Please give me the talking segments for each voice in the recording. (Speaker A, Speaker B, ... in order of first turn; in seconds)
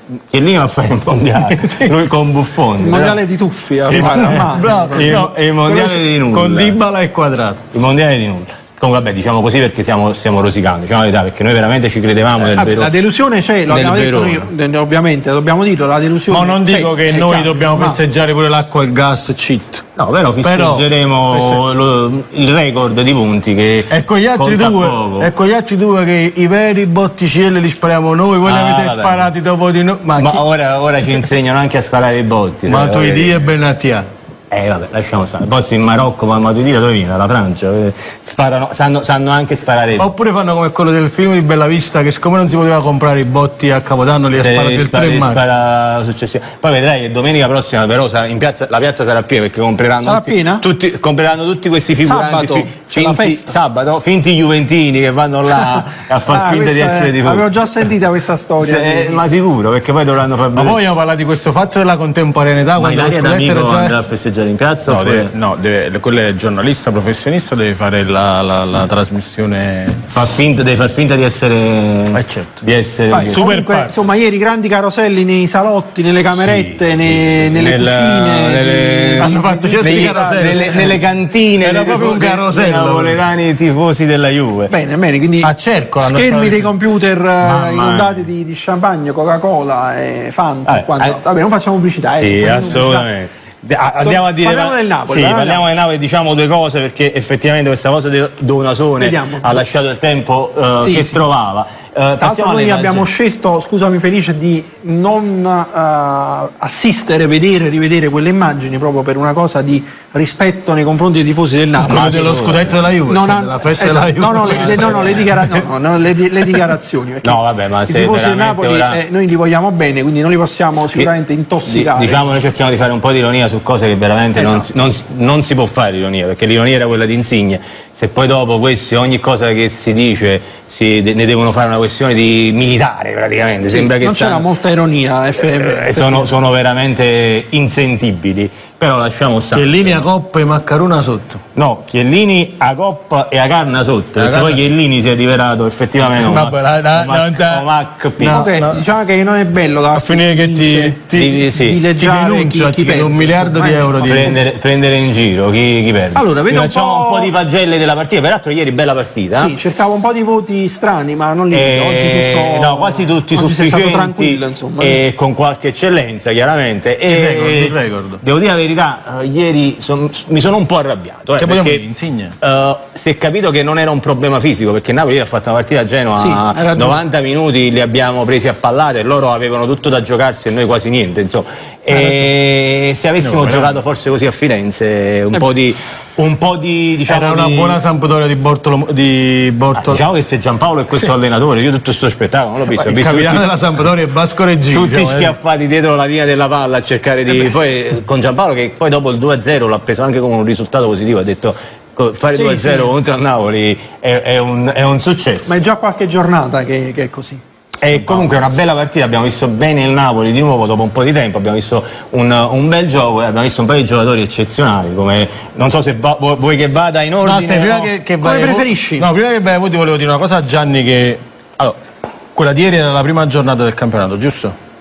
Speaker A: 0.3-3.2, 3.9-6.8, 7.7-12.9, 13.7-14.5, 20.0-25.3, 28.4-29.3, 30.2-33.4, 34.5-40.1, 44.4-57.5, 58.6-60.8, 62.8-65.3, 70.1-73.4, 76.3-84.7, 87.4-88.2, 90.7-91.2, 92.2-103.1, 111.8-112.8, 114.6-115.1, 117.2-119.0, 121.7-134.5, 135.4-140.0, 141.6-148.5, 151.1-151.8, 154.1-159.6, 161.5-171.9, 172.4-187.8, 189.8-193.5, 194.7-205.5, 207.8-217.9
Speaker B: 1.6-1.9, 3.9-7.6, 16.3-19.8, 20.4-21.6, 23.9-30.4, 32.7-34.1, 40.0-45.4, 60.6-63.9, 64.9-70.0, 72.1-72.6, 73.3-73.9, 79.2-80.9, 81.6-83.2, 85.4-86.7, 111.8-115.6, 139.5-141.4, 144.2-144.6, 146.1-147.7, 148.2-148.8, 149.9-151.1, 152.0-154.4, 167.1-168.2, 171.4-172.3, 183.2-183.8, 187.1-190.0, 192.7-195.3, 217.2-221.8, 222.3-224.5
Speaker C: 2.8-5.1, 12.4-18.0, 50.0-50.6, 52.0-53.5, 56.3-59.2, 73.1-80.9, 84.7-85.5, 86.0-93.1, 94.0-95.7, 99.0-99.6, 100.8-101.2, 102.2-112.4, 113.1-122.2, 124.4-124.7, 133.7-136.3, 148.3-154.3, 156.1-157.3, 159.3-165.0, 176.2-177.0, 202.3-202.9, 205.5-207.4, 218.2-219.1